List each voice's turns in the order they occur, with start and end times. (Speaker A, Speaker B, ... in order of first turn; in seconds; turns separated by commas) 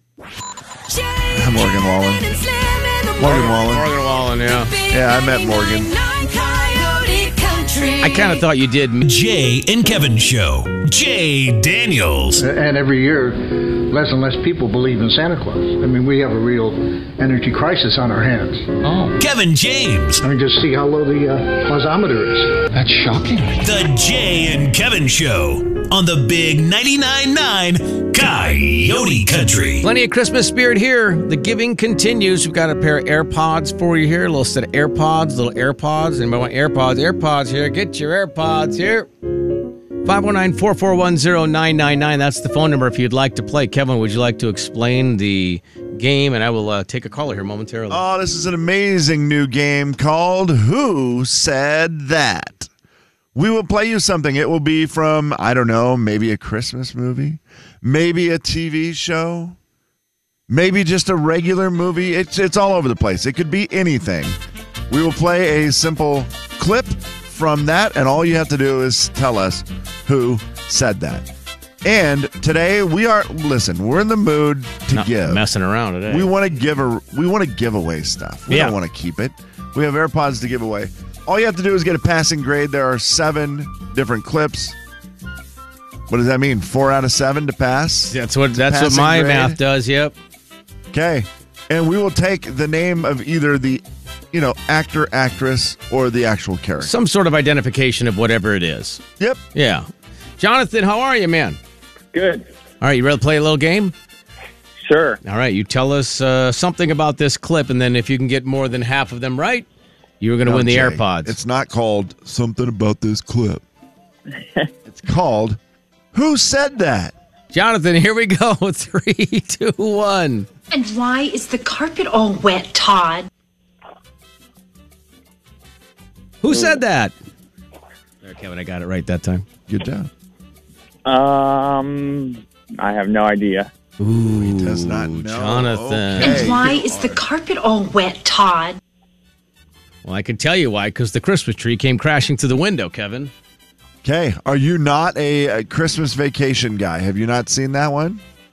Speaker A: 0.9-3.4, Speaker B: 1.3-2.2, Speaker B: 3.2-3.8, Speaker C: 3.2-4.7, Speaker A: 4.6-8.4, Speaker B: 4.9-5.9, Speaker C: 8.0-9.0, Speaker D: 9.0-12.4, Speaker E: 12.4-18.7, Speaker D: 19.2-20.2, Speaker E: 20.2-22.6, Speaker D: 23.5-29.8, Speaker C: 29.8-39.1, Speaker C: 40.0-48.0, Speaker B: 47.9-52.7, Speaker B: 53.3-59.6, Speaker B: 60.5-64.4, Speaker B: 64.9-71.3, Speaker B: 71.8-75.4, Speaker C: 74.9-76.3, Speaker B: 76.1-84.8, Speaker C: 78.5-78.8, Speaker B: 86.1-89.6, Speaker C: 88.1-90.1, Speaker B: 90.9-96.9, Speaker C: 96.8-99.0, Speaker C: 99.5-99.9, Speaker C: 100.4-101.6, Speaker F: 102.1-102.4, Speaker C: 102.8-103.9, Speaker F: 104.8-105.2, Speaker C: 105.2-109.7, Speaker C: 110.2-111.3, Speaker B: 110.4-113.6, Speaker B: 114.8-115.6, Speaker B: 116.1-117.1, Speaker C: 117.5-120.5, Speaker A: 120.7-123.3, Speaker C: 126.4-127.1, Speaker F: 126.5-126.8, Speaker C: 128.2-129.4, Speaker B: 129.7-130.1, Speaker F: 131.0-133.7, Speaker C: 134.0-136.5, Speaker B: 134.3-137.2, Speaker A: 136.2-138.8, Speaker C: 140.0-143.3, Speaker B: 144.0-148.2